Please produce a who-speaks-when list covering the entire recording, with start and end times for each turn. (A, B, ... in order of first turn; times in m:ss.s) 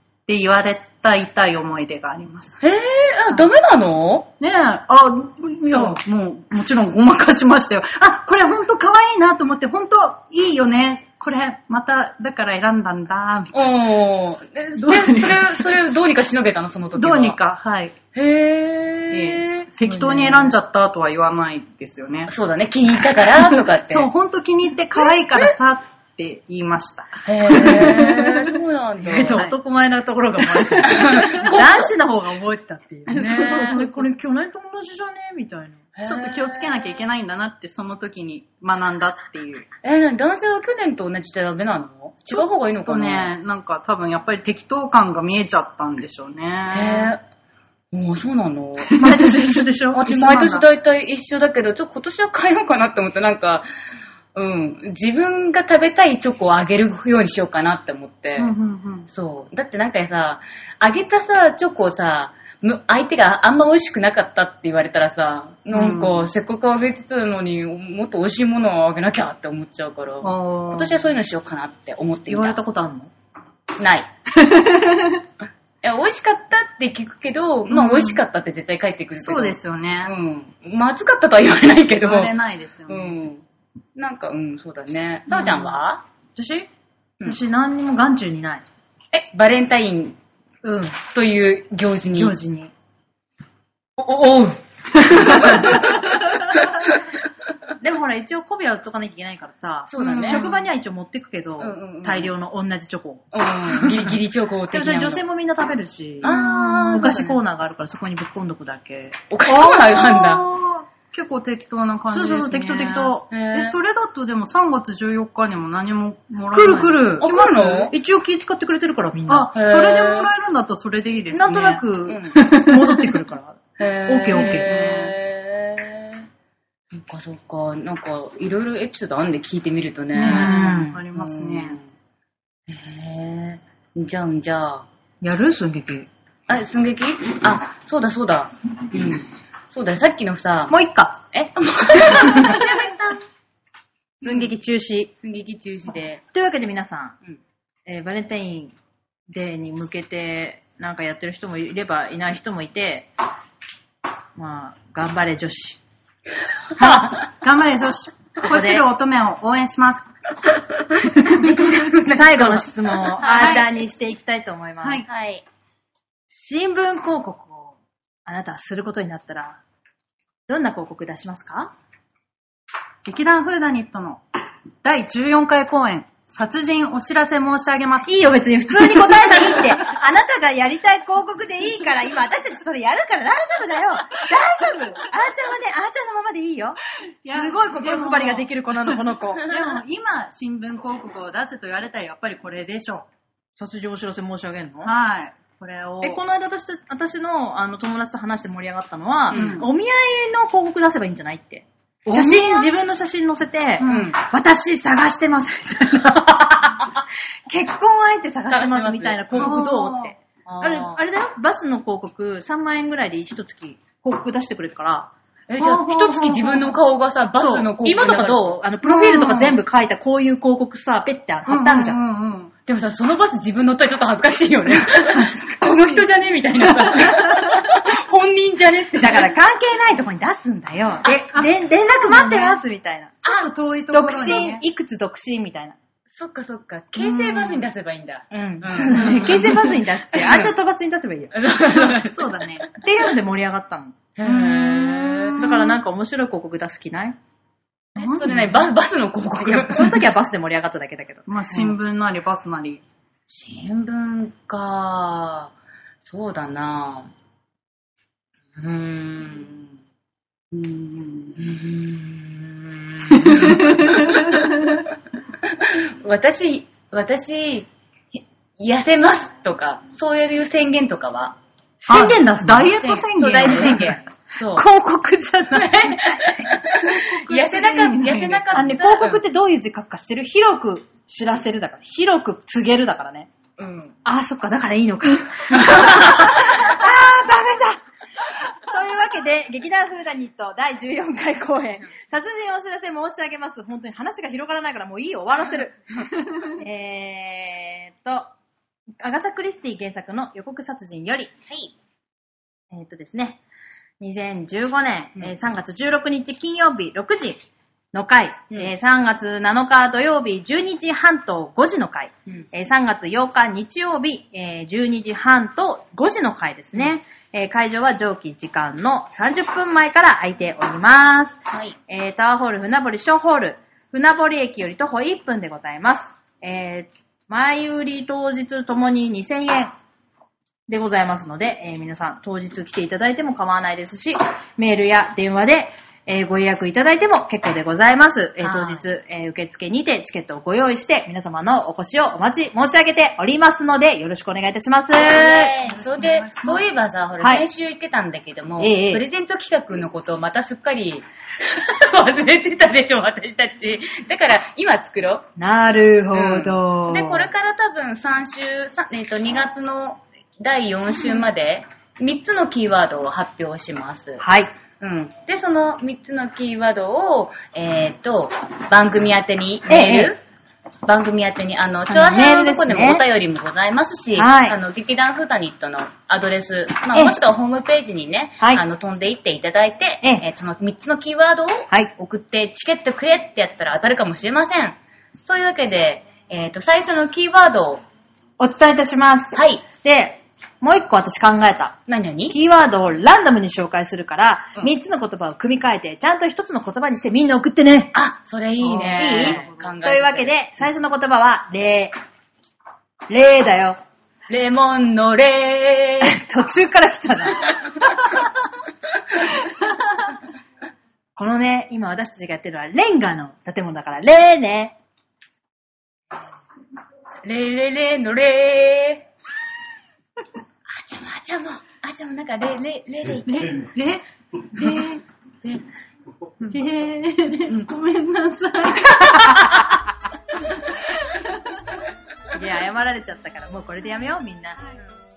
0:00.3-0:02.6 A
0:02.6-0:04.3 B
0:04.4-0:13.9 A
0:05.7-0:06.0 B
0:13.5-0:17.4 B
0:14.8-0:15.7 A
0:17.0-0:17.9 A
0:18.1-0:20.6 B
0:19.1-0:22.3 A
0:22.3-0:24.1 B
0:23.9-0:28.0 A
0:27.2-0:29.5 B
0:27.5-0:35.9 C
0:30.8-0:31.9 B
0:33.1-0:34.0 B
0:33.2-0:33.8 A
0:36.0-0:36.8 B
0:36.0-0:39.7 A
0:39.8-0:43.3 B
0:42.3-0:47.1 A
0:46.7-0:47.2 B
0:47.9-0:49.1 B
0:49.0-0:49.8 C
0:49.0-0:50.6 A
0:49.9-0:53.7 B
0:54.3-0:58.5 B
0:58.4-0:59.1 A
0:59.1-1:12.6 B
1:05.7-1:06.3 A
1:10.2-1:11.0 A
1:12.3-1:13.1 C
1:13.8-1:14.1 B
1:14.5-1:14.8 C
1:15.8-1:22.3 B
1:17.7-1:18.2 A
1:19.2-1:20.1 A
1:22.0-1:23.2 A
1:22.9-1:26.0 B
1:25.3-1:25.7 C
1:26.4-1:26.7 C
1:27.2-1:28.6 C
1:29.1-1:30.2 B
1:30.6-1:31.0 C
1:31.0-1:32.4 B
1:32.2-1:32.7 C
1:34.0-1:37.0 B
1:35.3-1:35.7 C
1:37.8-1:44.2 C
1:39.9-1:40.4 B
1:40.0-1:40.7 A
1:41.6-1:42.3 B
1:43.3-1:45.2 B
1:44.7-1:46.4 C
1:46.2-1:47.4 B
1:46.2-1:47.2 A
1:46.9-1:49.2 C
1:49.3-1:50.4 B
1:49.4-1:57.9 A
1:52.1-1:53.3 C
1:53.3-1:53.8 B
1:56.5-1:57.3 C
1:57.2-1:57.9 B
1:57.9-1:59.5 C
1:59.3-2:01.8 A
1:59.5-2:00.3 B
2:01.3-2:04.8 C
2:02.1-2:02.4 B
2:02.4-2:03.2 A
2:03.8-2:06.2 B
2:04.3-2:05.2 A
2:06.9-2:11.8 B
2:10.2-2:11.8 A
2:10.2-2:11.0 C
2:12.7-2:14.9 B
2:15.2-2:16.1 C
2:16.5-2:20.8 B
2:20.7-2:21.2 C
2:21.3-2:23.2 B
2:24.2-2:25.1 C
2:25.2-2:26.2 B
2:26.3-2:27.2 C
2:27.9-2:28.8 C
2:29.3-2:33.1 C
2:34.4-2:35.8 C
2:36.8-2:40.1 A
2:36.8-2:37.2 B
2:38.4-2:38.8 C
2:41.2-2:43.7 B
2:41.5-2:41.8 A
2:42.0-2:45.0 C
2:43.2-2:43.6 A
2:44.8-2:45.1 A
2:45.1-2:45.4 B
2:46.3-2:49.6 C
2:50.5-2:51.7 C
2:53.0-2:54.2 A
2:54.8-2:58.1 A
2:58.1-3:09.5 C
3:07.2-3:13.1 A
3:13.6-3:14.9 C
3:14.8-3:16.2 A
3:16.0-3:35.1 C
3:19.3-3:19.6 B
3:19.3-3:19.7 A
3:22.1-3:22.7 A
3:23.8-3:24.1 A
3:23.8-3:24.2 B
3:28.5-3:29.6 B
3:29.3-3:30.1 A
3:30.5-3:31.0 B
3:35.5-3:38.6 B
3:35.6-3:36.8 A
3:37.4-3:42.0 C
3:38.8-3:39.6 A
3:41.5-3:42.5 A
3:42.7-3:49.3 B
3:45.2-3:46.0 A
3:49.0-3:53.2 C
3:51.1-3:52.3 A
3:51.9-3:52.6 B
3:53.2-3:54.6 A
3:53.9-3:55.8 C
3:54.2-3:54.5 B
3:56.1-4:00.5 B
3:57.0-3:57.6 C
3:58.3-4:01.4 C
3:58.9-3:59.8 A
4:01.3-4:02.3 B
4:01.8-4:02.7 A
4:02.8-4:04.0 C
4:04.2-4:05.4 B
4:04.2-4:05.7 A
4:04.7-4:07.2 C
4:08.0-4:08.6 A
4:08.0-4:10.0 B
4:09.4-4:11.3 C
4:11.3-4:12.8 A
4:13.3-4:15.5 B
4:16.0-4:17.1 B
4:18.6-4:19.7 B
4:20.5-4:24.8 B
4:23.5-4:24.4 A
4:25.5-4:31.4 B
4:31.8-4:34.0 C
4:31.9-4:33.9 A
4:32.8-4:34.6 B
4:34.5-4:36.3 C
4:35.5-4:39.2 B
4:36.9-4:38.6 A
4:38.5-4:43.3 C
4:43.6-4:44.0 B
4:44.0-4:47.8 C
4:45.5-4:46.5 B
4:48.6-4:58.3 C
4:59.0-5:01.3 C
5:01.5-5:01.7 B
5:02.7-5:03.4 C
5:04.0-5:29.7 C
5:21.5-5:21.8 B
5:30.7-5:45.5 C
5:38.4-5:38.8 B
5:45.0-5:55.3 B
5:45.6-5:46.6 A
5:47.2-5:47.5 C
5:48.6-5:49.1 C
5:55.4-5:57.3 C
5:56.1-6:04.2 B
6:04.2-6:04.5 C
6:04.8-6:10.2 B
6:09.7-6:10.2 C
6:10.8-6:27.8 B
6:11.9-6:13.0 C
6:14.2-6:14.6 C
6:16.9-6:17.2 C
6:28.4-6:31.8 C
6:29.3-6:29.6 B
6:31.9-6:32.4 B
6:32.3-6:37.9 C
6:37.9-6:40.6 B
6:38.6-6:39.7 A
6:38.9-6:41.9 C
6:43.1-6:43.8 C
6:44.3-6:46.2 B
6:46.0-6:47.5 C
6:47.5-6:47.9 B
6:51.2-6:54.8 C
6:57.2-6:59.0 B
7:00.7-7:03.6 B
7:03.3-7:04.0 A
7:04.6-7:05.0 A
7:04.6-7:04.9 B
7:06.5-7:09.6 A
7:10.7-7:11.4 A
7:12.3-7:14.6 C